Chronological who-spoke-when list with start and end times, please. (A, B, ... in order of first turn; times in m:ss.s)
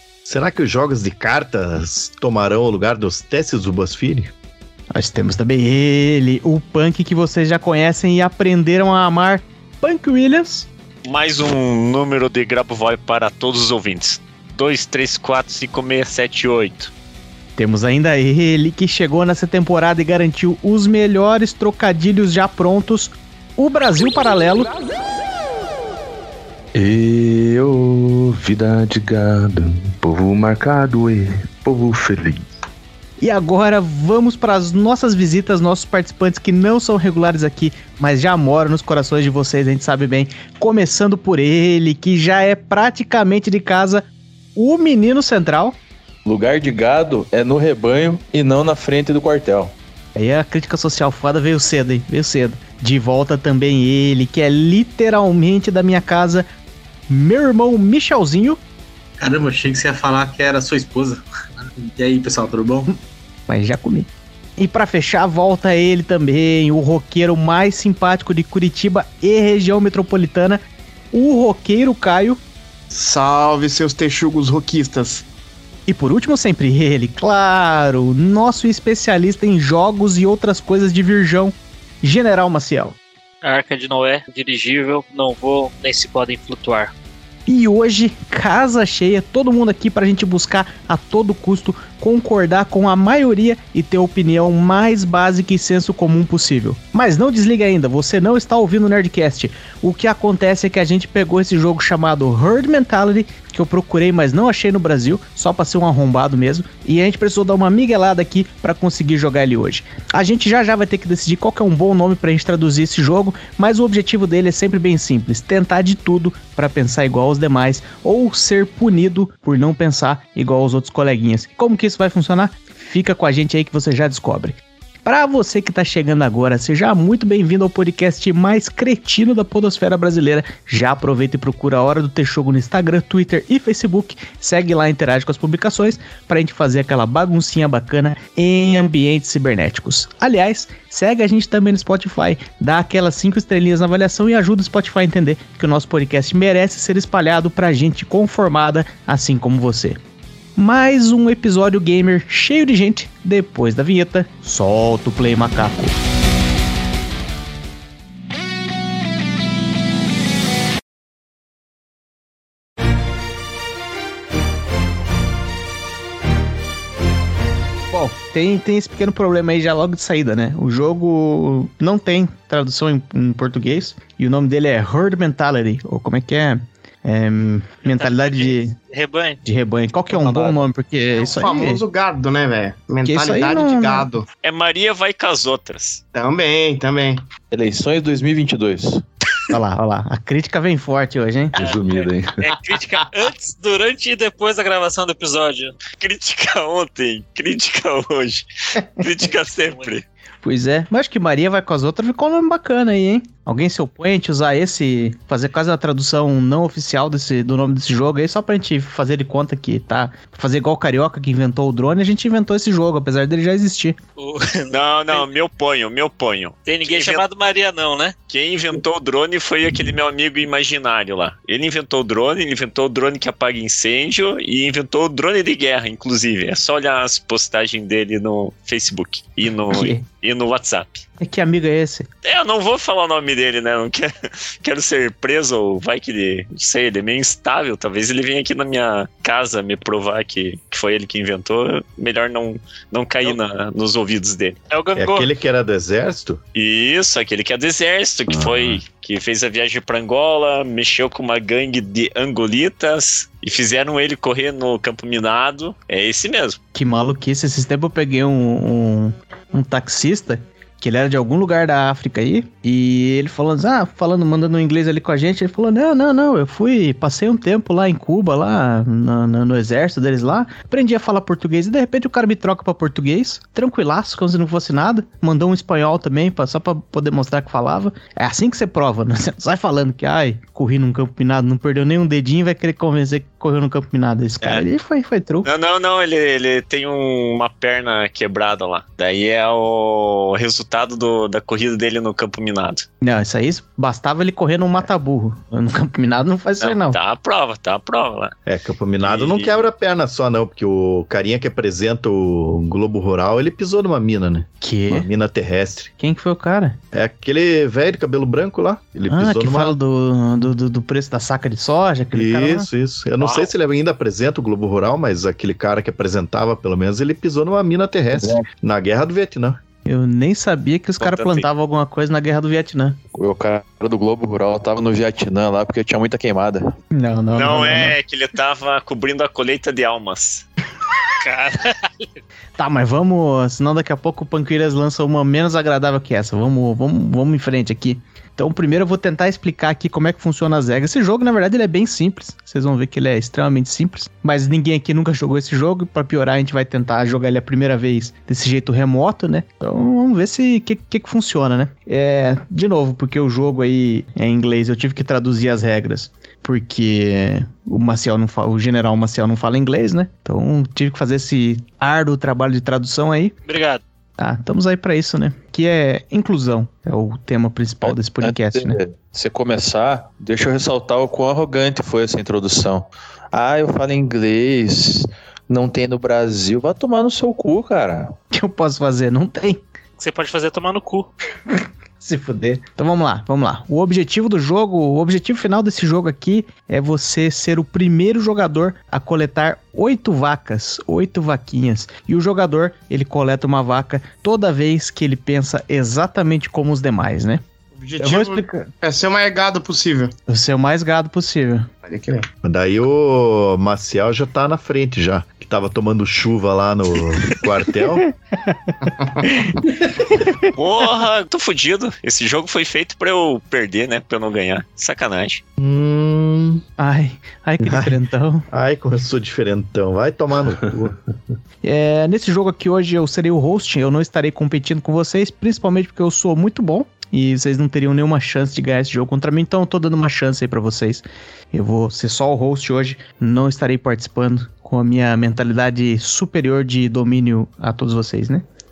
0:00.2-0:04.3 A
0:04.9-0:10.7 B
0:11.0-0:16.9 C
0:17.6-0:24.7 B
0:26.8-0:32.5 D
0:33.2-0:45.8 B
0:46.2-0:49.7 E
0:50.1-0:56.5 B
0:57.1-0:58.6 B
0:59.2-1:02.9 F
1:03.5-1:10.6 B
1:11.1-1:12.4 B
1:12.9-1:15.2 G
1:15.9-1:23.0 B
1:23.4-1:26.9 H
1:27.5-2:30.0 B
2:30.6-2:36.0 B
2:47.9-2:58.8 B
2:57.9-2:59.4 H
2:59.4-3:01.8 B
3:00.1-3:00.6 E
3:01.2-3:04.2 G
3:03.0-3:04.1 B
3:04.4-3:06.0 C
3:06.1-3:07.2 G
3:07.5-3:09.0 E
3:09.5-3:11.6 B
3:11.6-3:12.5 D
3:11.6-3:15.8 H
3:16.0-3:20.0 C
3:19.7-3:19.9 H
3:20.4-3:34.0 B
3:34.2-3:35.3 H
3:34.7-3:37.2 C
3:36.7-3:38.2 H
3:38.3-3:51.0 C
3:49.7-3:50.0 B
3:51.2-3:52.1 B
3:52.2-4:04.6 C
4:04.7-4:05.3 H
4:05.0-4:06.4 A
4:06.5-4:16.6 C
4:08.3-4:08.8 A
4:16.7-4:45.5 B
4:45.4-4:52.8 C
4:53.0-4:57.0 B
4:56.6-4:58.3 C
4:58.5-5:05.9 A
4:59.0-4:59.6 C
5:04.6-5:05.1 B
5:06.0-5:06.8 B
5:06.9-5:09.8 A
5:09.1-5:12.7 B
5:12.1-5:19.6 A
5:13.2-5:13.5 C
5:18.2-5:18.4 E
5:19.8-5:23.0 B
5:21.0-5:21.5 C
5:23.1-5:26.7 E
5:26.9-5:28.0 B
5:27.3-5:30.5 C
5:31.2-5:32.2 H
5:32.6-6:03.4 B
6:03.5-6:03.8 H
6:04.2-6:08.8 B
6:07.8-6:18.1 E
6:18.3-6:19.6 B
6:20.0-6:21.1 H
6:22.0-6:37.4 B
6:37.8-6:40.1 G
6:38.0-6:38.7 B
6:40.3-6:41.7 B
6:41.9-6:42.3 G
6:42.4-6:48.0 A
6:48.4-6:50.5 B
6:48.8-6:49.2 G
6:50.6-6:55.4 C
6:55.6-6:56.6 A
6:56.8-6:58.5 B
6:57.6-6:57.9 A
6:58.5-7:01.0 A
7:01.6-7:18.4 B